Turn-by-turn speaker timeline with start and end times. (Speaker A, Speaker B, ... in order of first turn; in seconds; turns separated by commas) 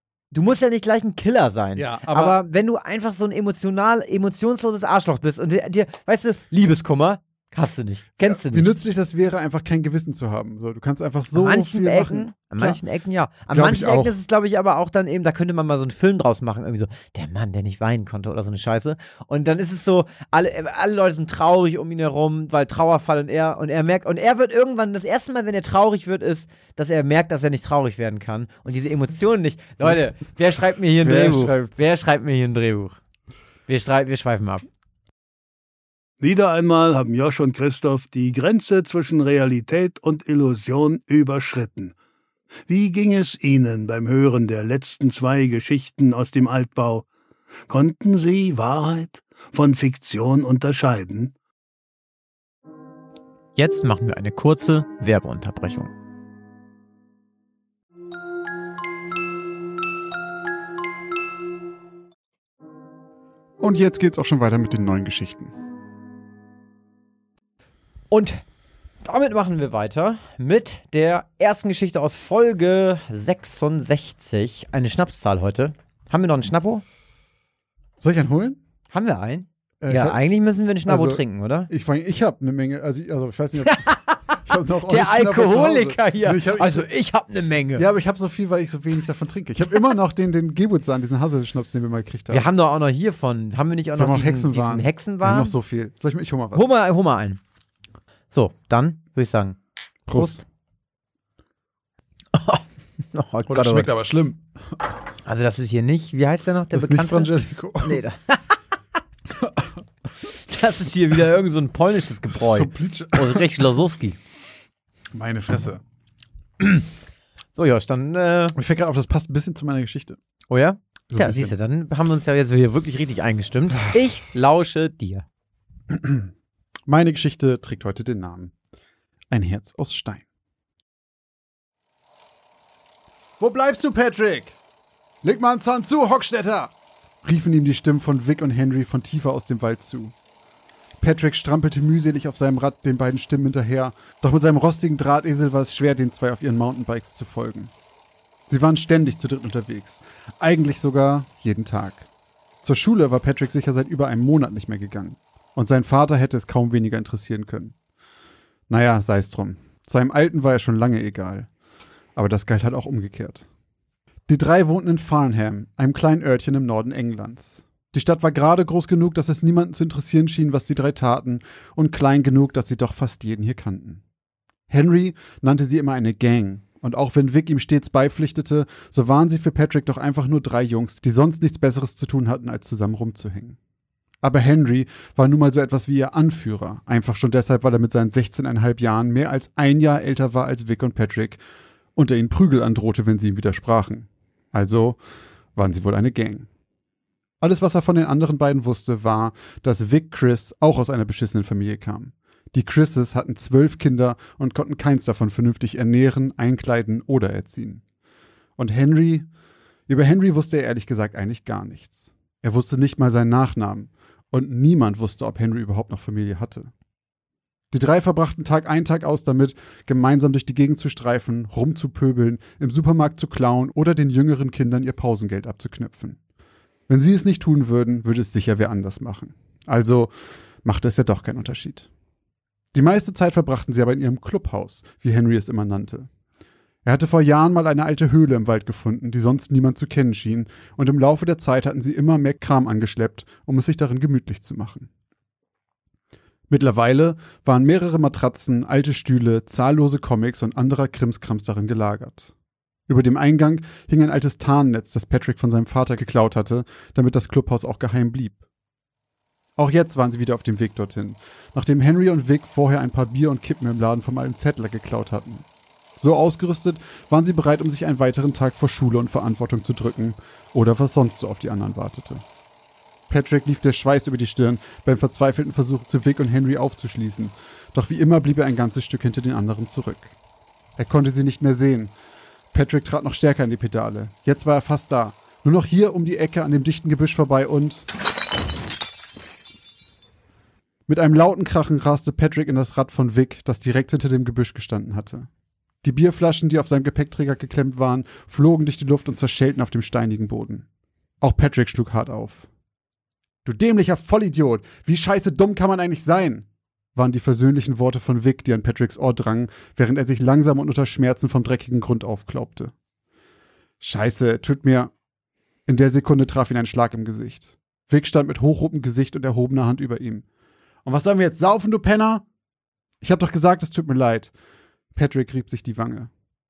Speaker A: 0.3-8.7, Speaker B: 1.8-2.4, Speaker B: 8.2-12.8, Speaker A: 11.3-33.0, Speaker B: 13.5-14.2, Speaker B: 31.0-31.8, Speaker A: 33.7-34.6, Speaker C: 36.2-41.9, Speaker C: 42.7-47.1, Speaker C: 47.7-51.3, Speaker A: 53.5-55.9, Speaker B: 63.6-65.5, Speaker A: 68.1-68.4, Speaker A: 69.0-76.8, Speaker B: 78.0-78.6, Speaker A: 78.9-81.7, Speaker B: 79.8-80.2, Speaker B: 80.8-83.8, Speaker A: 83.6-87.8, Speaker B: 84.4-86.8, Speaker B: 87.8-92.5, Speaker A: 92.3-95.5, Speaker B: 93.9-96.7, Speaker A: 96.5-97.4, Speaker A: 98.3-99.6, Speaker B: 100.1-100.4, Speaker A: 100.1-100.4, Speaker A: 102.3-103.9, Speaker B: 103.5-104.4, Speaker A: 105.2-108.6, Speaker B: 106.7-108.0, Speaker B: 109.4-109.7, Speaker A: 110.2-114.2, Speaker B: 112.3-113.6, Speaker B: 115.1-115.8, Speaker A: 116.6-116.8, Speaker A: 117.5-118.5, Speaker B: 118.5-120.2, Speaker A: 120.5-125.2, Speaker B: 121.1-121.5, Speaker B: 125.9-126.3, Speaker B: 126.9-128.5, Speaker B: 129.3-130.2, Speaker B: 133.4-134.6, Speaker B: 135.2-136.7, Speaker B: 137.2-140.1, Speaker B: 141.0-147.7, Speaker B: 148.5-152.1, Speaker B: 152.6-157.7, Speaker B: 158.7-161.5, Speaker B: 162.2-163.4, Speaker B: 164.3-174.0, Speaker B: 174.7-183.6, Speaker B: 184.2-191.4, Speaker B: 191.9-195.0, Speaker B: 195.6-196.5, Speaker B: 197.4-207.8, Speaker B: 208.6-209.3, Speaker B: 209.9-216.7, Speaker B: 217.7-226.2, Speaker B: 226.9-230.1, Speaker B: 230.6-231.9, Speaker B: 232.7-236.1, Speaker B: 236.8-244.9, Speaker B: 246.5-252.3, Speaker B: 252.9-258.4, Speaker B: 259.6-265.4, Speaker B: 266.0-272.2, Speaker B: 273.1-280.1, Speaker B: 280.8-281.9, Speaker B: 282.5-287.8, Speaker B: 290.9-295.3, Speaker B: 295.8-300.6, Speaker B: 301.2-302.5, Speaker B: 303.4-312.7, Speaker B: 313.8-314.9, Speaker B: 315.7-320.2, Speaker B: 320.8-322.2, Speaker B: 323.0-324.3, Speaker B: 324.9-326.1